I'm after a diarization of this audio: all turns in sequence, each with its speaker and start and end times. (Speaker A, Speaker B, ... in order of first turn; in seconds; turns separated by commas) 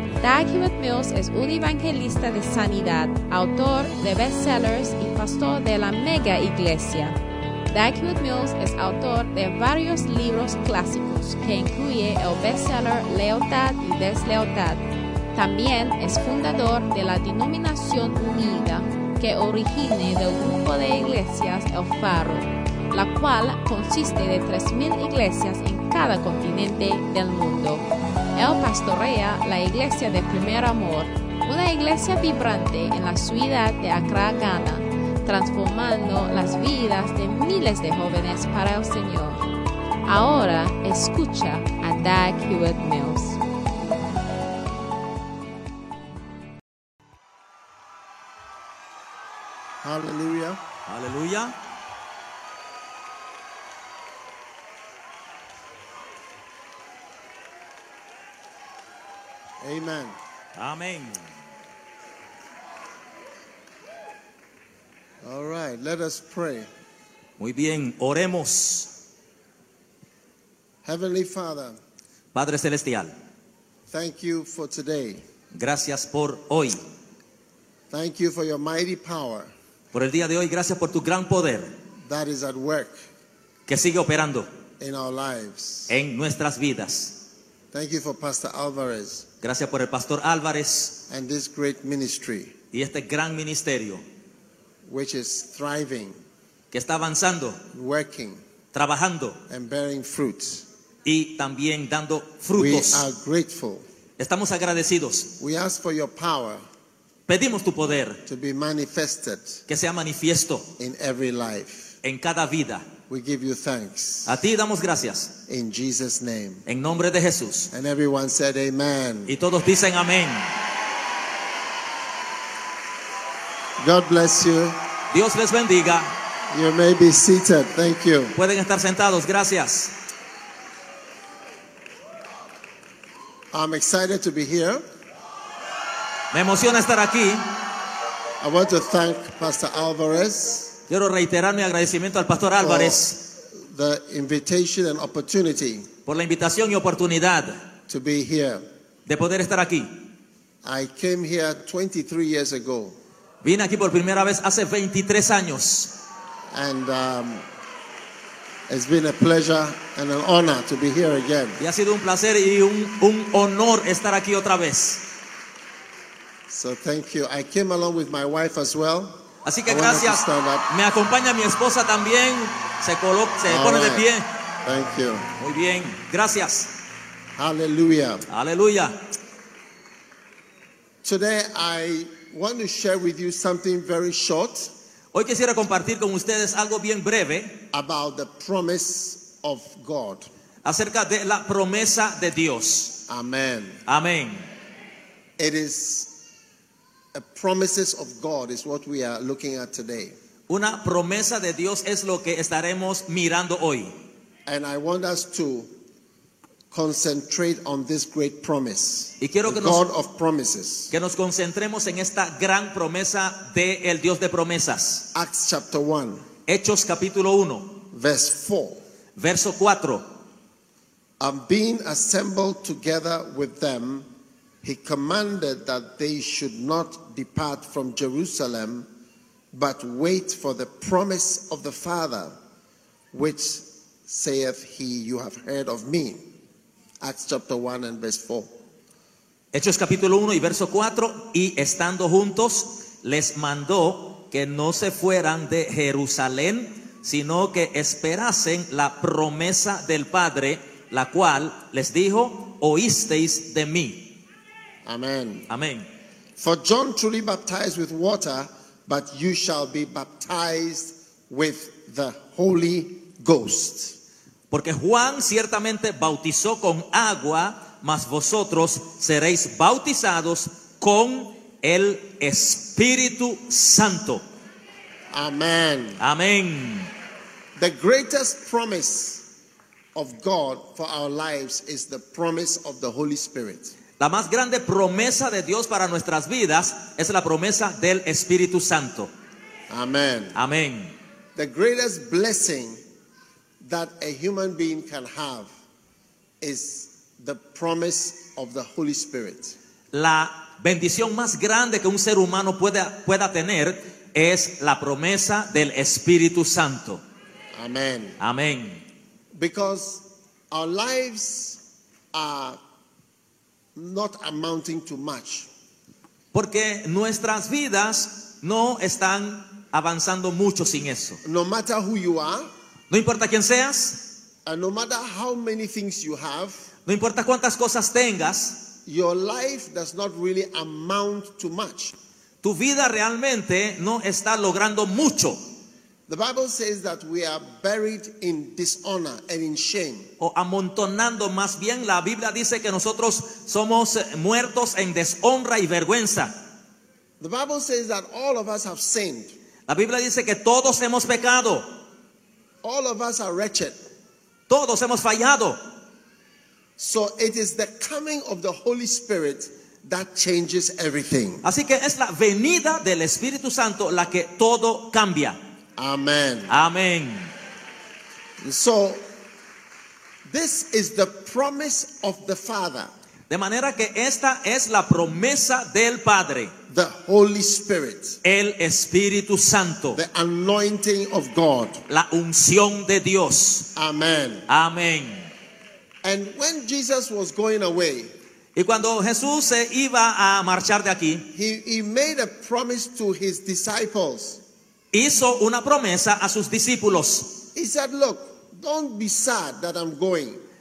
Speaker A: 0.2-7.2, Speaker A: 7.7-39.5, Speaker A: 40.1-43.4, Speaker B: 49.8-50.6, Speaker C: 50.9-51.5, Speaker B: 59.6-60.2, Speaker C: 60.6-61.2, Speaker B: 65.2-66.7, Speaker C: 67.4-68.9, Speaker B: 70.8-71.8, Speaker C: 72.3-73.1, Speaker B: 73.9-75.2, Speaker C: 75.5-76.8, Speaker B: 77.9-79.5, Speaker C: 79.9-81.7, Speaker B: 82.1-83.0, Speaker C: 83.7-84.5, Speaker B: 84.8-85.9, Speaker C: 85.9-87.2, Speaker B: 87.7-89.3, Speaker C: 89.4-91.0, Speaker B: 91.1-92.5, Speaker C: 92.7-94.0, Speaker B: 94.8-96.2, Speaker C: 96.7-97.6, Speaker B: 97.7-98.4, Speaker C: 98.7-99.4, Speaker B: 99.5-100.7, Speaker C: 101.0-103.0, Speaker B: 102.6-103.8, Speaker C: 104.2-105.3, Speaker B: 105.4-106.6, Speaker C: 107.3-108.2, Speaker B: 108.3-109.6, Speaker C: 109.7-110.7, Speaker B: 110.8-111.9, Speaker C: 112.0-112.9, Speaker B: 113.1-114.3, Speaker C: 114.3-115.4, Speaker B: 115.5-116.6, Speaker C: 116.7-117.7, Speaker B: 117.7-119.3, Speaker C: 119.3-120.5, Speaker B: 123.8-124.8, Speaker C: 125.1-126.1, Speaker B: 126.5-128.4, Speaker C: 128.4-129.9, Speaker B: 133.5-134.8, Speaker C: 136.3-137.5, Speaker B: 138.4-140.8, Speaker C: 140.9-143.2, Speaker B: 142.6-145.9, Speaker C: 146.1-147.6, Speaker B: 147.9-148.6, Speaker C: 149.1-150.0, Speaker B: 150.6-153.0, Speaker C: 153.4-155.9, Speaker B: 156.5-157.4, Speaker B: 158.7-161.6, Speaker C: 161.6-165.0, Speaker B: 166.5-169.2, Speaker C: 169.4-174.3, Speaker B: 169.7-170.7, Speaker B: 173.5-174.1, Speaker B: 174.6-175.3, Speaker C: 175.4-176.8, Speaker B: 177.4-178.3, Speaker C: 178.3-179.0, Speaker B: 181.0-184.7, Speaker C: 185.1-187.6, Speaker B: 187.7-190.3, Speaker C: 190.7-193.0, Speaker B: 193.1-193.8, Speaker C: 193.9-194.4, Speaker B: 195.4-196.1, Speaker B: 197.1-200.2, Speaker C: 200.5-203.9, Speaker B: 204.5-205.7, Speaker B: 206.7-210.9, Speaker C: 209.2-209.8, Speaker C: 210.9-215.1, Speaker B: 215.1-216.2, Speaker C: 216.5-217.8, Speaker B: 217.9-218.8, Speaker C: 219.2-220.1, Speaker B: 221.2-224.1, Speaker B: 224.6-228.9, Speaker B: 229.5-232.3, Speaker B: 233.1-236.2, Speaker B: 237.0-238.5, Speaker C: 239.5-254.2, Speaker B: 254.8-255.5, Speaker C: 255.5-255.9, Speaker B: 256.4-264.0, Speaker C: 264.5-274.2, Speaker B: 275.1-276.0, Speaker C: 276.0-276.9, Speaker B: 277.6-279.2, Speaker B: 279.9-283.7, Speaker C: 284.0-289.1, Speaker B: 289.7-290.4, Speaker C: 290.4-290.9, Speaker B: 291.4-292.8, Speaker B: 293.6-295.5, Speaker B: 296.4-299.6, Speaker C: 299.9-307.0, Speaker B: 307.6-308.2, Speaker C: 308.2-308.8, Speaker B: 309.3-311.6, Speaker B: 312.1-312.6, Speaker B: 313.8-315.5, Speaker C: 316.3-321.2, Speaker B: 321.2-322.5, Speaker C: 322.9-324.1, Speaker B: 324.5-326.6, Speaker C: 326.9-328.6, Speaker B: 328.9-331.9, Speaker C: 332.4-335.4, Speaker B: 336.1-340.1, Speaker C: 340.2-346.4, Speaker B: 347.2-349.3, Speaker C: 349.7-351.7, Speaker B: 352.6-353.8, Speaker C: 354.5-355.6, Speaker B: 356.8-361.4, Speaker C: 361.4-365.4, Speaker B: 365.8-366.6, Speaker C: 366.5-367.3, Speaker B: 368.4-369.0, Speaker B: 370.3-372.9, Speaker C: 373.3-376.5, Speaker B: 376.7-378.2, Speaker C: 378.2-380.0, Speaker B: 379.9-381.8, Speaker C: 381.9-383.7, Speaker B: 383.8-384.5, Speaker C: 384.5-385.3, Speaker B: 386.0-388.1, Speaker C: 388.6-391.3, Speaker B: 391.3-394.4, Speaker C: 394.9-397.4, Speaker B: 397.6-400.4